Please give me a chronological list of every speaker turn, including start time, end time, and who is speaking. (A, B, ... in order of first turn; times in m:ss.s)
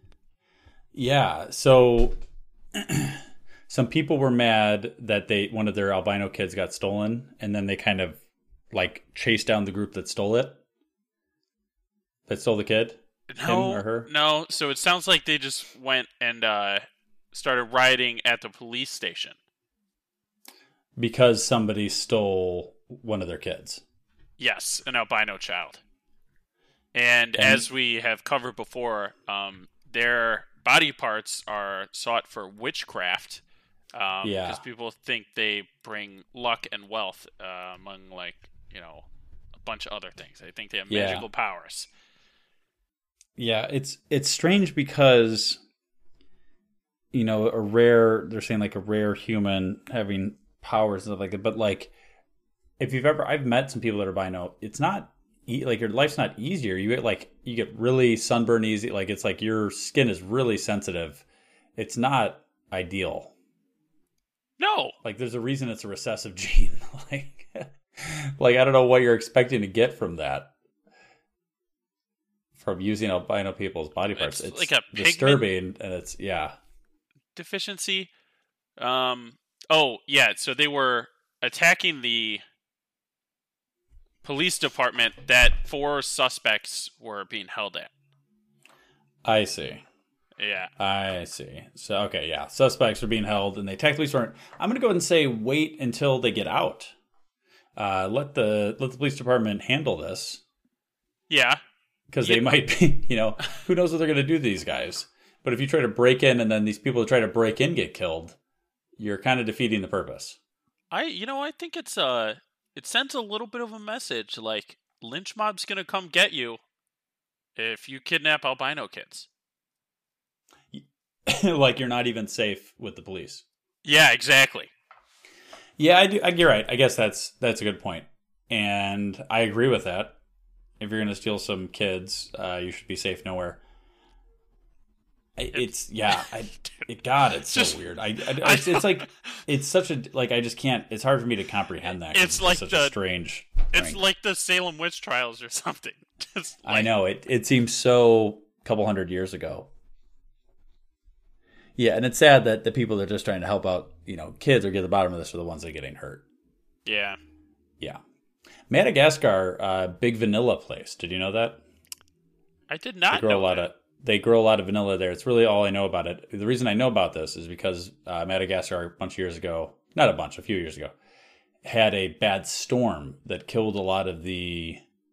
0:00.9-0:02.2 A
0:02.7-0:08.2 A
0:08.7-0:10.6 A
0:12.3-0:14.1 A
0:13.3-0:19.4 B
0:21.0-0:23.8 A
0:24.4-0:25.8 B
0:26.9-0:39.1 B
0:27.4-0:27.6 A
0:34.2-0:34.6 A
0:39.6-0:41.9 B
0:40.9-0:41.2 A
0:43.4-0:45.6 A
0:47.1-0:51.9 A
0:52.8-1:01.2 A
1:01.8-1:03.3 A
1:04.6-1:05.0 B
1:05.0-1:10.5 A
1:12.6-1:16.6 A
1:14.1-1:15.5 B
1:17.3-1:18.1 B
1:18.8-1:22.4 B
1:24.2-1:27.9 B
1:29.2-1:29.8 A
1:30.4-1:30.7 B
1:30.8-1:36.9 A
1:37.8-1:40.4 A
1:41.3-1:41.6 B
1:42.1-1:48.4 A
1:42.2-1:42.6 B
1:49.0-1:50.4 A
1:50.9-1:56.6 B
1:57.6-1:59.3 B
2:00.7-2:03.4 A
2:03.8-2:04.7 B
2:05.8-2:10.2 A
2:10.8-2:13.6 A
2:15.4-2:24.0 A
2:15.5-2:16.3 B
2:17.5-2:19.1 B
2:21.8-2:23.0 B
2:23.7-2:26.9 B
2:26.6-2:29.7 A
2:31.8-2:36.2 A
2:36.8-2:37.2 B
2:38.7-2:41.6 A
2:42.7-2:43.7 B
2:43.1-2:50.9 A
2:51.6-2:54.8 A